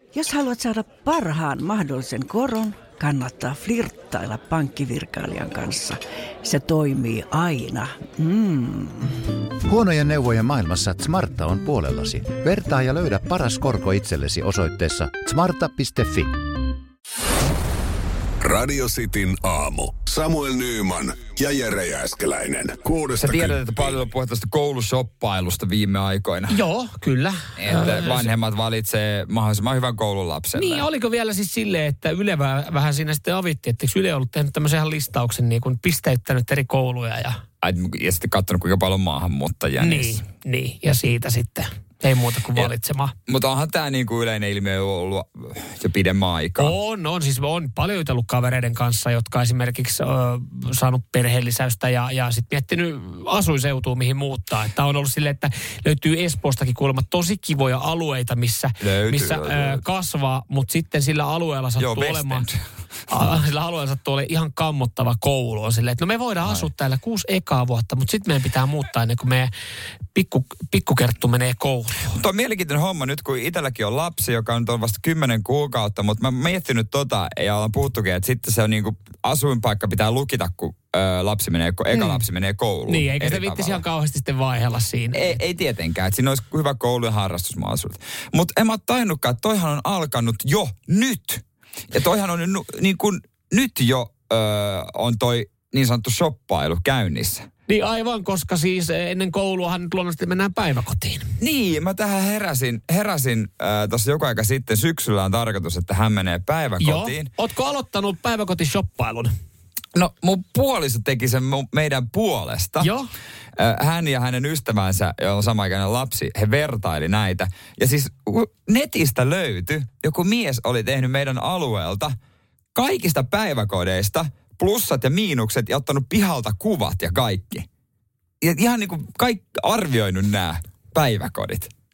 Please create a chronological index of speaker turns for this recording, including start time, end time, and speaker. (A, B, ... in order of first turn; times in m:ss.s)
0:00.1-0:09.1 A
0:09.6-0:16.3 B
0:18.4-0:23.6 C
0:23.2-0:26.6 D
0:26.5-0:28.3 E
0:27.6-0:30.9 D
0:30.6-0:37.4 E
0:37.6-0:40.2 D
0:39.8-0:43.1 E
0:43.3-0:46.7 D
0:46.6-1:02.5 E
0:58.8-0:59.8 D
1:01.8-1:02.6 D
1:03.1-1:09.5 E
1:10.1-1:12.2 E
1:12.1-1:23.8 D
1:21.9-1:22.2 E
1:22.9-1:25.4 E
1:25.1-1:37.5 D
1:37.7-1:41.3 E
1:41.4-1:47.3 D
1:46.8-1:49.3 E
1:50.0-1:52.9 D
1:52.8-1:53.1 E
1:53.6-2:02.2 D
2:02.8-2:07.7 D
2:08.4-2:11.7 D